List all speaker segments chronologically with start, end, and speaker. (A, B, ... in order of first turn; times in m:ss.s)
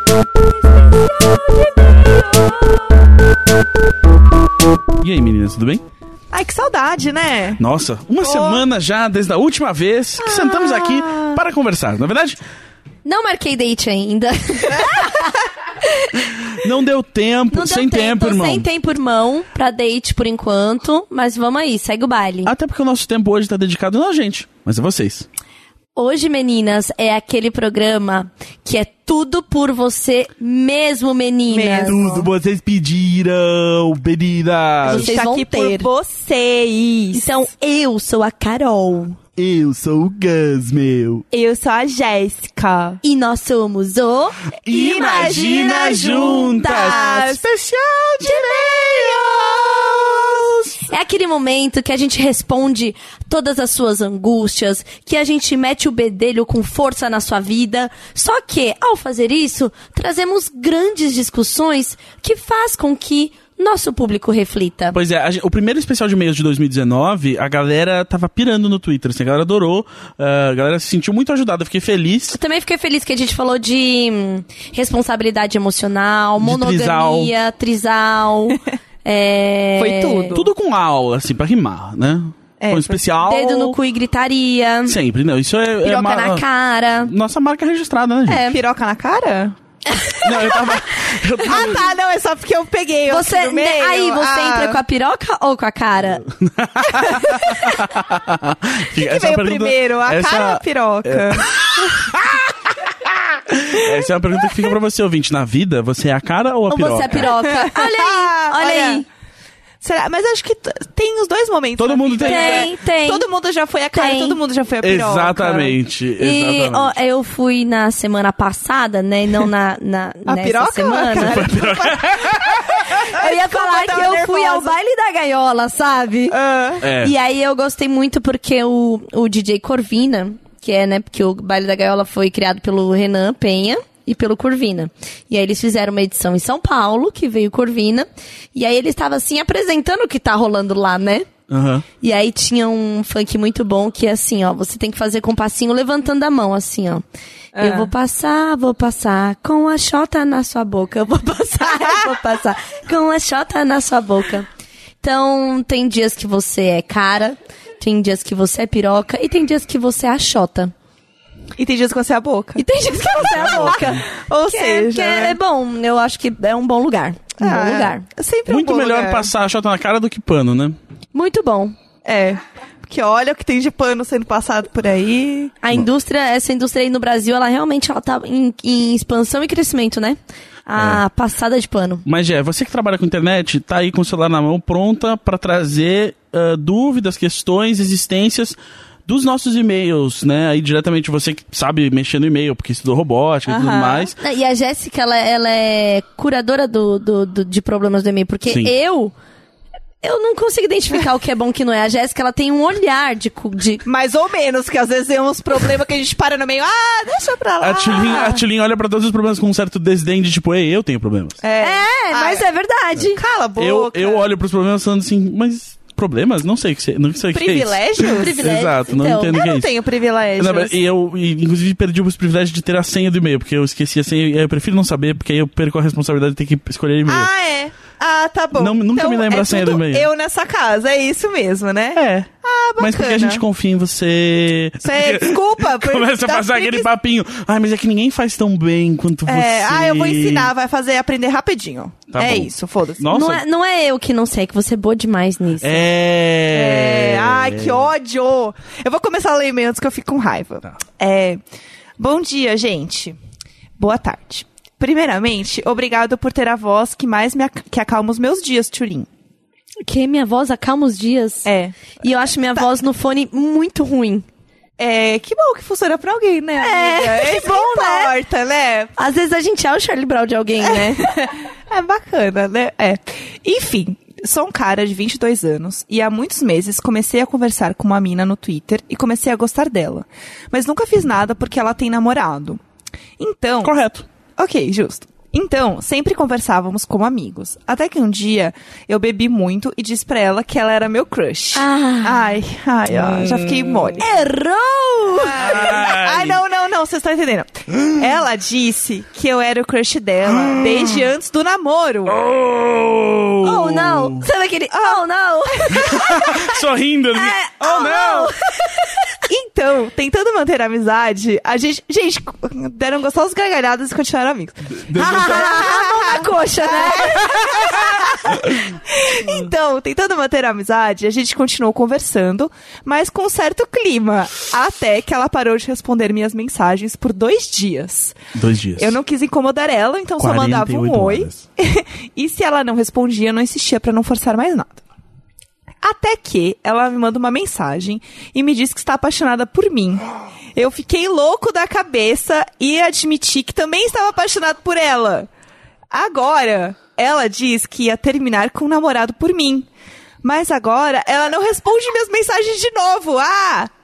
0:00.7-0:03.1 A
0:05.0-0:05.8 B
0:06.3-0:07.6 C
0:07.6-0:12.4 B
0:08.2-0:08.6 C
0:10.2-0:11.4 C
0:13.0-0:16.3 A
0:16.3-0:18.7 B
0:17.5-0:22.5 A
0:22.5-0:25.3 B
0:26.0-0:32.0 A
0:31.5-0:32.3 C
0:31.9-0:35.2 B
0:34.8-0:35.9 A
0:34.8-0:37.3 C
0:37.1-0:39.2 A
0:39.4-0:41.2 B
0:41.3-0:43.0 C
0:43.0-0:47.4 A
0:44.6-0:50.5 B
0:44.7-0:47.4 C
0:48.2-0:50.1 A
0:48.3-0:49.4 C
0:50.8-1:05.0 A
1:04.9-1:12.4 B
1:12.3-1:20.4 A
1:16.4-1:17.3 B
1:19.8-1:20.5 C
1:20.3-1:23.8 B
1:22.6-1:23.0 C
1:23.2-1:25.0 A
1:24.9-1:26.5 B
1:25.8-1:27.1 A
1:27.0-1:28.4 B
1:28.3-1:28.6 A
1:28.5-1:29.6 C
1:30.2-1:31.9 B
1:30.5-1:30.9 C
1:31.4-1:34.8 C
1:33.1-1:36.3 A
1:36.2-1:42.4 B
1:37.0-1:37.4 C
1:39.0-1:42.1 C
1:43.5-1:47.3 B
1:46.7-1:49.0 A
1:47.1-1:49.0 C
1:49.8-1:55.8 C
1:51.8-1:52.7 B
1:52.2-1:53.3 A
1:53.9-1:54.4 A
1:54.8-1:56.9 B
1:56.2-2:01.5 A
2:00.3-2:04.7 C
2:01.1-2:03.0 B
2:03.0-2:06.4 A
2:06.3-2:06.8 C
2:06.8-2:07.1 B
2:07.0-2:21.3 A
2:21.5-2:21.8 B
2:22.0-2:27.0 A
2:27.6-2:27.9 C
2:27.6-2:34.5 A
2:35.0-2:40.7 A
2:41.6-2:42.6 C
2:42.6-2:48.0 A
2:43.2-2:44.0 B
2:43.6-2:45.4 C
2:47.4-2:49.3 C
2:48.5-2:50.8 B
2:51.1-2:51.8 A
2:52.0-2:55.5 C
2:55.6-3:02.1 A
3:00.8-3:01.0 B
3:02.1-3:14.2 B
3:13.5-3:14.1 C
3:14.2-3:19.1 A
3:20.0-3:23.8 A
3:23.8-3:28.4 C
3:27.6-3:31.4 B
3:31.4-3:32.5 C
3:31.6-3:33.2 A
3:33.1-3:34.3 C
3:33.6-3:39.7 B
3:37.3-3:38.4 C
3:38.2-3:39.4 A
3:39.3-3:40.8 C
3:40.4-3:47.3 B
3:47.1-3:53.4 C
3:48.6-3:50.1 B
3:52.0-4:00.5 B
3:54.8-3:56.9 C
3:59.3-4:03.1 C
4:02.1-4:03.4 B
4:03.1-4:05.8 A
4:05.6-4:07.9 B
4:06.5-4:11.4 C
4:12.0-4:13.2 C
4:13.8-4:19.1 C
4:19.8-4:21.5 A
4:21.4-4:22.0 C
4:22.0-4:24.2 A
4:24.8-4:28.9 C
4:26.6-4:28.2 A
4:29.0-4:31.1 A
4:30.6-4:42.6 C
4:43.2-4:43.8 C
4:43.6-4:44.1 B
4:44.4-4:54.0 C
4:51.6-4:52.3 A
4:53.0-4:53.9 B
4:54.0-4:55.5 A
4:55.2-5:02.2 C
4:55.4-4:56.4 B
5:00.3-5:01.0 B
5:02.1-5:04.3 B
5:03.4-5:06.5 A
5:04.7-5:05.9 C
5:05.7-5:08.3 B
5:07.1-5:09.0 A
5:09.3-5:28.2 C
5:14.7-5:15.7 B
5:14.9-5:18.2 A
5:18.3-5:19.4 B
5:28.3-5:29.0 B
5:28.8-5:34.8 C
5:30.2-5:31.4 B
5:35.8-5:45.3 C
5:45.9-5:49.7 C
5:50.2-5:53.7 C